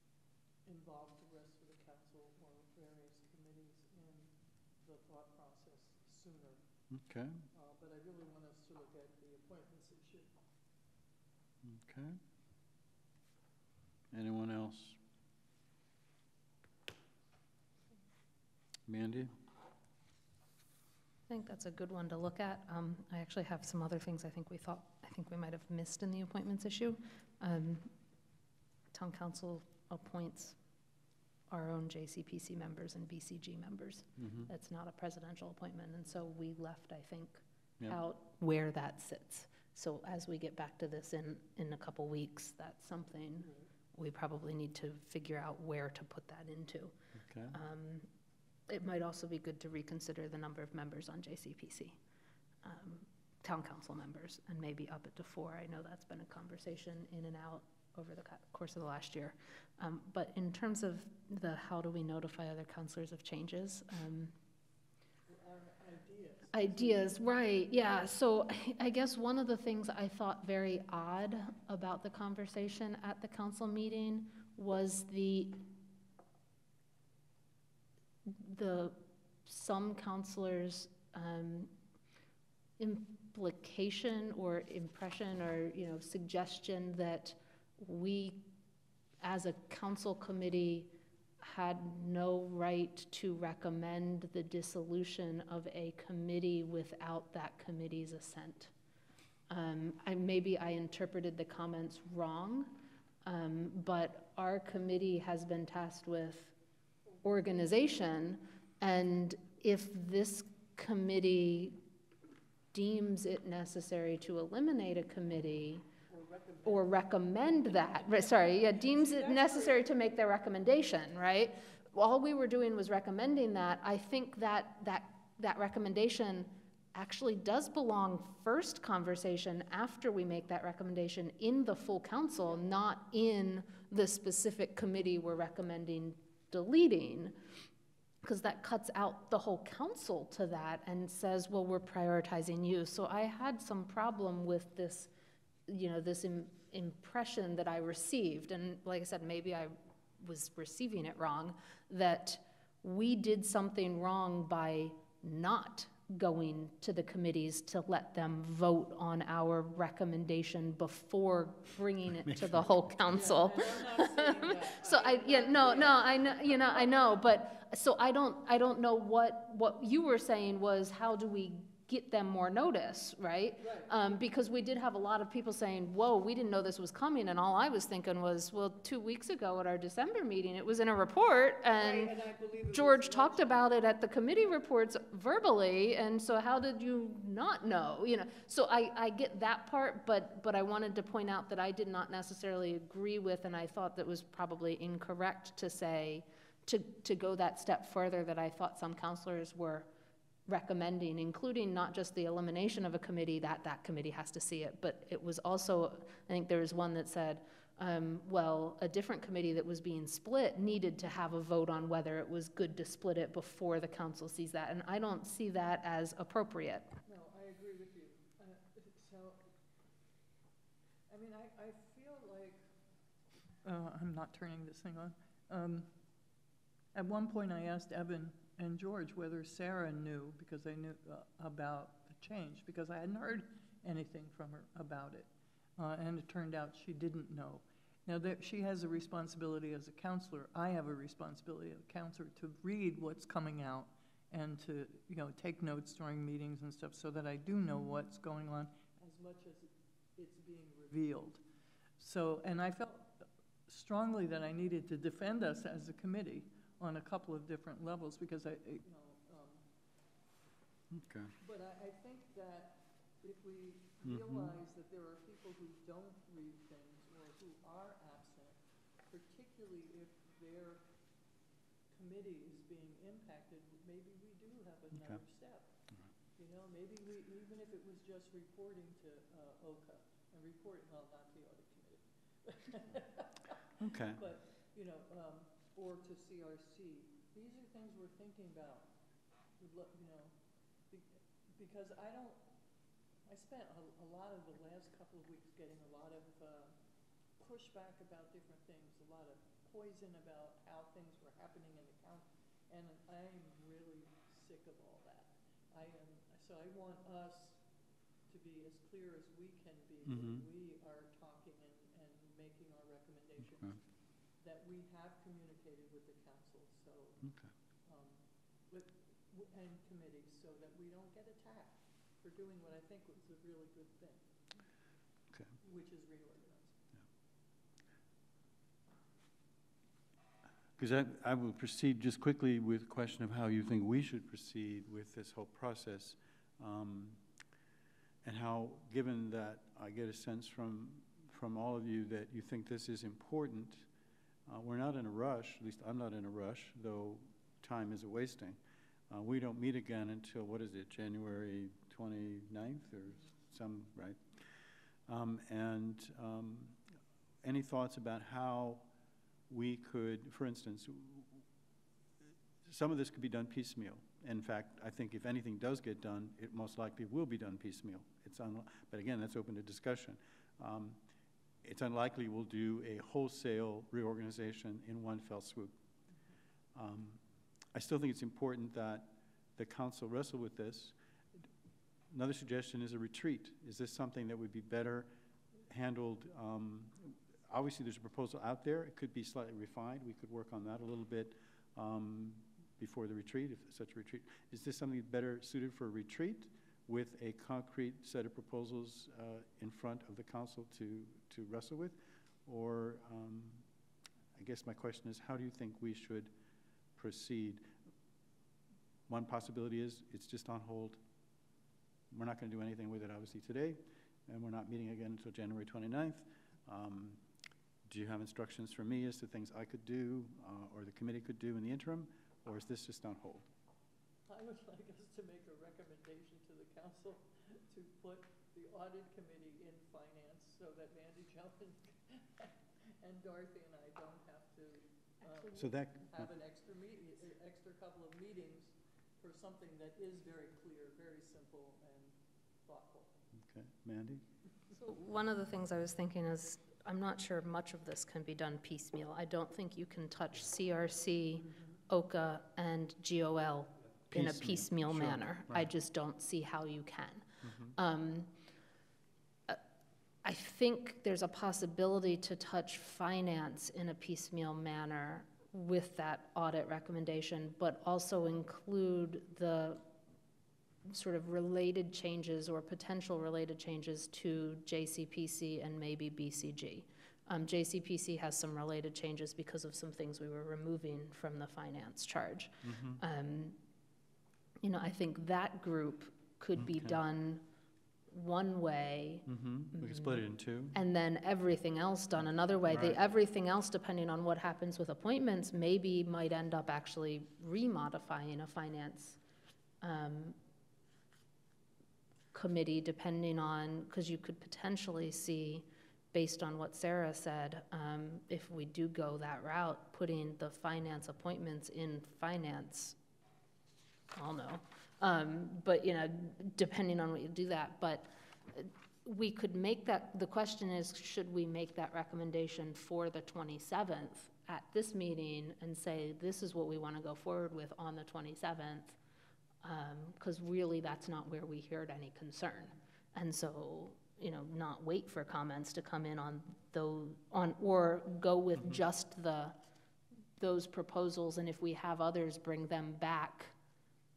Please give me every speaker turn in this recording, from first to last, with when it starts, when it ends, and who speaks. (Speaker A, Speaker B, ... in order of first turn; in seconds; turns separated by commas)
Speaker A: 0.6-6.6, Speaker B: 6.9-7.4, Speaker A: 7.5-10.3, Speaker B: 11.6-12.2, Speaker B: 14.1-15.0, Speaker B: 18.9-19.3, Speaker C: 21.3-27.9, Speaker C: 28.9-30.6, Speaker C: 31.5-47.0, Speaker B: 34.2-34.5, Speaker A: 43.4-43.7, Speaker B: 47.2-47.6, Speaker C: 47.5-48.1, Speaker C: 48.7-52.0, Speaker C: 52.6-64.3, Speaker A: 65.2-67.5, Speaker C: 66.5-75.7, Speaker C: 78.2-81.7, Speaker C: 82.8-88.5, Speaker C: 89.2-98.7, Speaker C: 99.5-106.5, Speaker A: 107.1-107.6, Speaker C: 107.2-111.8, Speaker C: 112.7-115.9, Speaker A: 116.1-119.9, Speaker C: 116.7-137.4, Speaker C: 138.2-145.1, Speaker C: 145.7-182.2, Speaker B: 162.2-162.9, Speaker A: 163.1-167.2, Speaker A: 173.6-174.0, Speaker A: 181.8-183.9, Speaker C: 182.7-199.9, Speaker C: 200.5-217.0, Speaker A: 217.1-219.5, Speaker A: 221.1-222.6, Speaker A: 223.6-225.9, Speaker A: 226.9-251.4, Speaker A: 252.0-259.6, Speaker B: 260.9-261.3, Speaker A: 261.4-270.8, Speaker B: 264.0-264.6, Speaker A: 271.9-275.7, Speaker B: 274.9-275.2, Speaker A: 276.4-288.9, Speaker B: 283.8-284.2, Speaker A: 289.6-292.5, Speaker A: 293.2-296.8, Speaker A: 297.4-307.6, Speaker A: 308.3-313.8, Speaker B: 310.0-310.4, Speaker A: 314.4-317.3, Speaker B: 317.2-317.5, Speaker A: 317.8-324.3, Speaker A: 325.6-326.8, Speaker B: 330.8-337.2, Speaker B: 338.2-343.9, Speaker B: 344.4-348.6, Speaker B: 349.1-356.8, Speaker B: 357.4-358.9, Speaker B: 359.5-361.4, Speaker B: 362.6-371.0, Speaker B: 371.6-375.7, Speaker B: 376.7-377.2, Speaker B: 377.7-380.9, Speaker B: 382.1-385.1, Speaker B: 385.7-403.6, Speaker B: 404.3-406.3, Speaker B: 406.9-407.7, Speaker B: 409.1-411.0, Speaker B: 412.1-417.2, Speaker B: 417.9-423.5, Speaker A: 424.2-443.2, Speaker B: 435.5-436.3, Speaker B: 443.3-444.2, Speaker C: 444.7-458.3, Speaker B: 454.1-455.7, Speaker B: 457.4-457.8, Speaker C: 460.2-469.8, Speaker C: 470.9-483.6, Speaker B: 482.6-483.0, Speaker C: 484.6-487.4, Speaker B: 486.6-487.0, Speaker C: 488.1-499.2, Speaker B: 489.2-490.8, Speaker B: 492.7-493.0, Speaker C: 499.8-500.4, Speaker C: 502.3-513.0, Speaker C: 514.1-529.0, Speaker C: 529.6-539.6, Speaker C: 540.4-543.5